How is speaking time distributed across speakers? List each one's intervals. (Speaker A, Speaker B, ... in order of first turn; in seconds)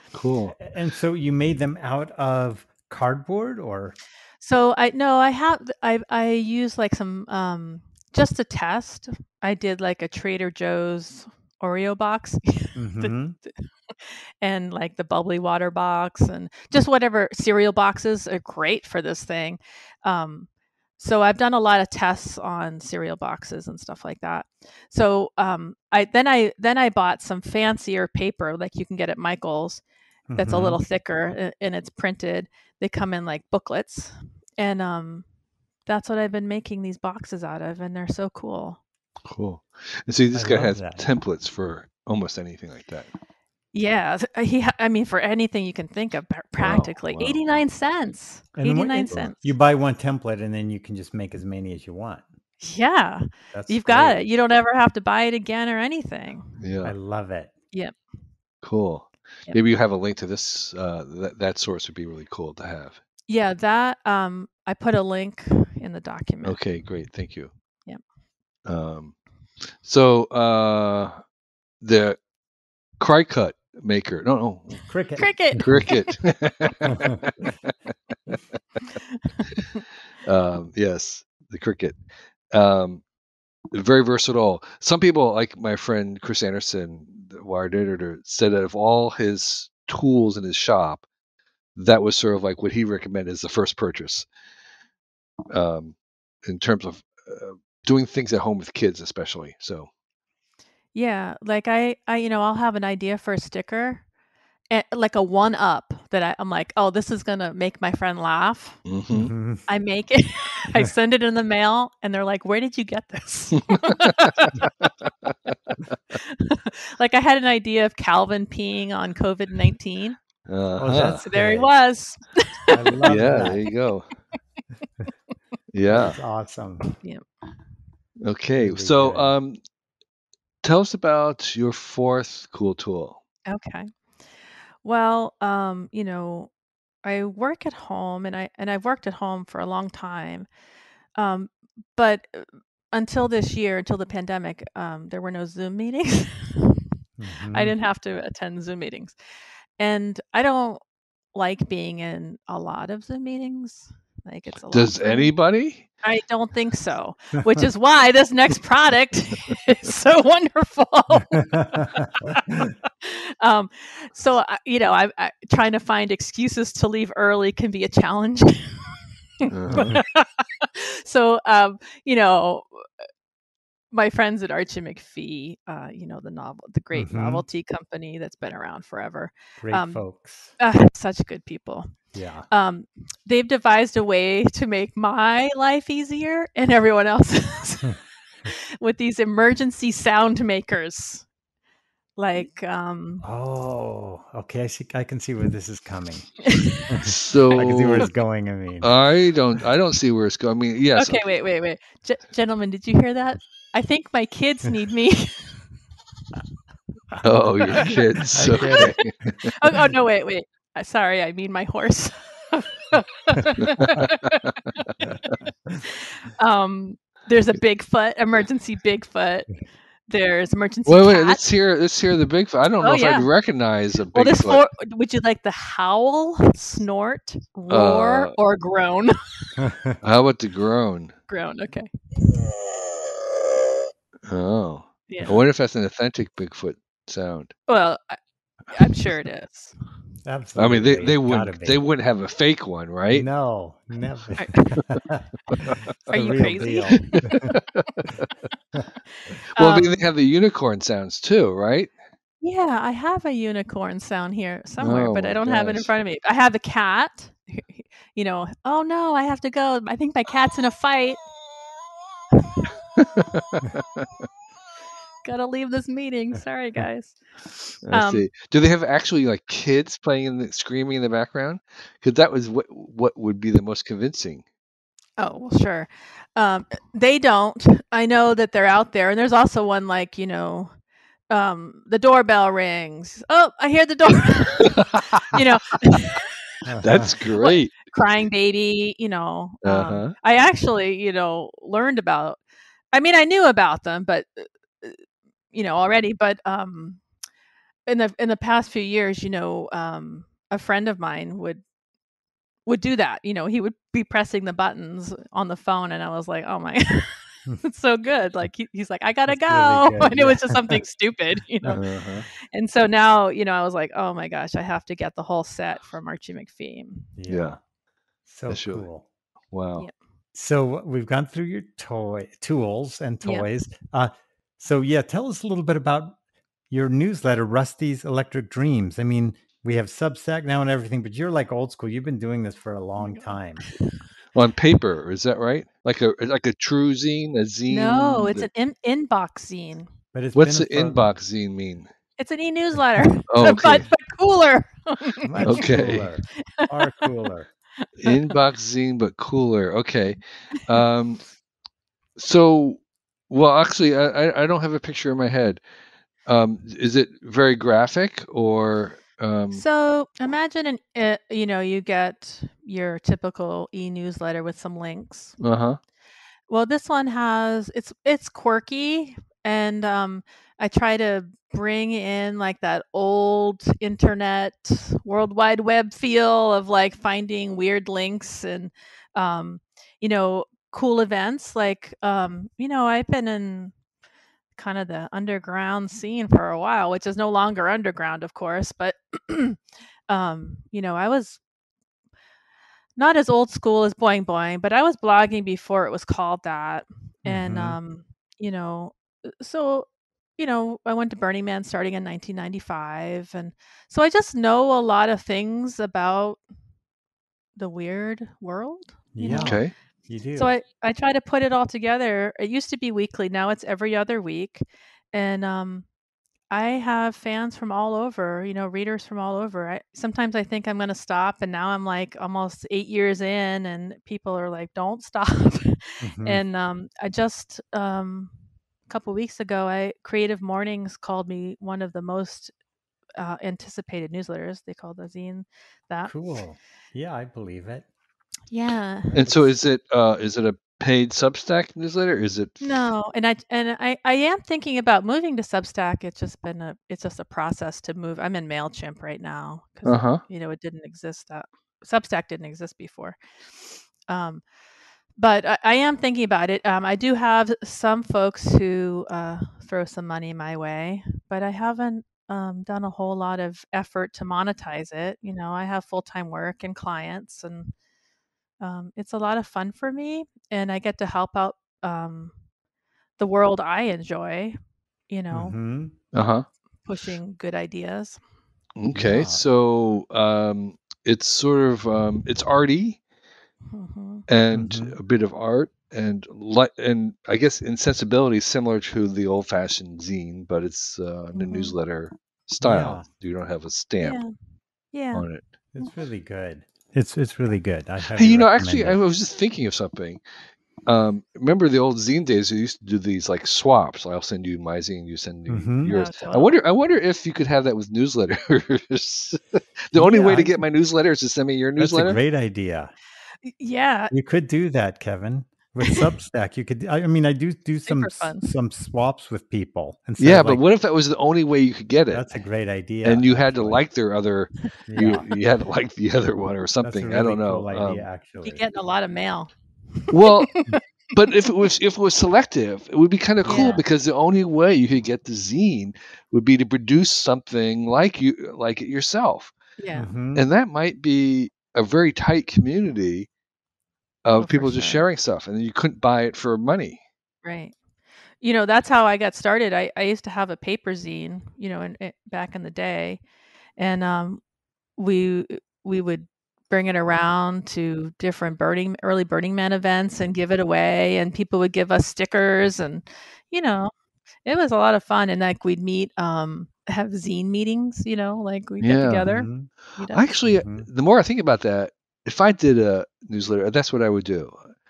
Speaker A: 0.1-0.6, 39.3-43.1, 46.6-47.4, 56.6-56.9, 58.6-63.0, 66.4-67.5, 68.7-69.2, 69.8-71.2, 71.8-72.2, 73.0-74.9, 75.6-77.7, 80.2-82.0, 82.5-83.0, 83.7-91.0, 91.8-94.3, 95.5-99.9, 108.9-109.3, 113.7-114.7, 120.5-121.2, 123.1-124.1, 125.7-126.2, 128.2-129.6, 130.6-133.2, 154.7-155.9, 169.5-170.0, 197.1-198.1, 198.8-201.2, 207.2-209.5, 213.6-214.5, 220.9-224.6, 227.7-228.3, 230.0-231.1, 234.3-237.5, 240.6-243.3, 247.1-248.3, 249.6-251.9, 254.8-255.9, 263.0-264.1, 267.9-274.4, 284.8-285.4, 286.8-287.8, 289.6-290.1, 311.7-312.2, 317.3-317.6, 318.5-318.9, 319.5-319.9, 334.4-338.5, 340.4-341.9, 343.3-343.8, 345.4-346.1, 348.0-351.2, 352.2-355.6, 356.3-359.6, 365.4-365.8, 409.3-409.7, 439.2-442.7, 449.9-450.2, 476.1-476.4, 478.8-483.0, 484.3-494.2, 495.1-495.4, 498.1-500.2, 500.9-512.2, 520.2-522.3, 523.0-528.1, 530.1-530.5, 531.1-539.5, 540.4-543.3, 544.2-547.0, 568.8-569.3, 570.1-574.6
Speaker B: 0.6-4.0, 12.8-13.4, 30.3-30.8, 40.3-41.0, 48.6-52.3, 53.5-54.2, 56.8-57.5, 74.9-75.7, 76.8-77.2, 109.1-109.7, 120.8-121.7, 122.7-123.6, 125.9-126.9, 128.6-129.4, 147.2-147.8, 161.4-161.8, 169.7-170.0, 176.9-177.4, 179.6-180.5, 182.1-182.5, 193.2-198.9, 207.1-209.3, 229.6-230.0, 240.2-241.8, 243.1-247.5, 286.7-287.1, 309.3-310.8, 317.2-317.6, 318.3-319.1, 320.4-326.2, 326.7-333.6, 340.1-341.1, 345.2-347.5, 397.2-397.8, 409.1-410.5, 426.0-426.4, 436.1-437.9, 439.2-439.5, 475.3-475.9, 478.9-479.4, 484.5-485.0, 492.6-493.0, 495.7-499.0, 505.5-505.9, 509.9-510.6, 511.8-512.9, 514.1-520.6, 522.1-523.8, 524.9-525.2, 526.8-528.6, 533.5-533.8, 539.9-540.5, 569.3-569.7, 570.5-570.9
Speaker C: 4.4-29.8, 30.4-35.3, 35.9-38.8, 43.7-49.5, 52.6-56.5, 63.3-66.6, 75.2-76.2, 79.1-79.8, 100.9-104.0, 104.7-108.8, 109.7-114.6, 116.1-120.2, 121.2-123.2, 133.5-133.9, 134.8-136.5, 137.0-140.5, 141.2-146.9, 147.5-149.2, 149.8-150.8, 151.3-155.3, 156.0-172.9, 173.9-180.0, 180.6-181.9, 182.5-191.3, 192.2-193.3, 196.5-196.9, 200.9-205.7, 207.7-208.9, 209.5-214.9, 215.8-219.6, 220.1-221.4, 222.8-223.3, 224.1-229.2, 231.3-231.9, 235.1-235.3, 237.7-238.2, 238.7-239.8, 244.4-244.8, 246.1-247.2, 249.6-250.0, 252.4-261.2, 265.2-268.3, 275.2-280.7, 281.3-286.3, 287.4-292.4, 292.9-295.0, 295.5-297.0, 297.9-301.6, 302.7-311.8, 312.5-317.1, 323.2-323.5, 333.0-333.9, 337.7-339.9, 342.2-345.8, 347.8-348.3, 359.5-365.4, 366.5-383.7, 384.6-391.4, 393.0-406.4, 407.6-409.6, 410.4-415.9, 416.5-428.3, 428.9-432.5, 433.2-436.1, 438.5-439.3, 442.6-453.2, 454.1-454.4, 455.2-467.7, 468.6-472.4, 473.2-474.6, 475.1-475.6, 476.9-478.2, 483.7-484.3, 491.4-491.8, 494.0-494.3, 494.9-495.2, 505.9-506.5, 513.4-514.1, 517.9-518.5, 528.4-530.8, 533.5-533.8, 539.8-540.1, 544.4-545.0, 547.4-547.7, 548.4-553.2, 553.8-554.4, 555.0-563.9, 564.5-570.3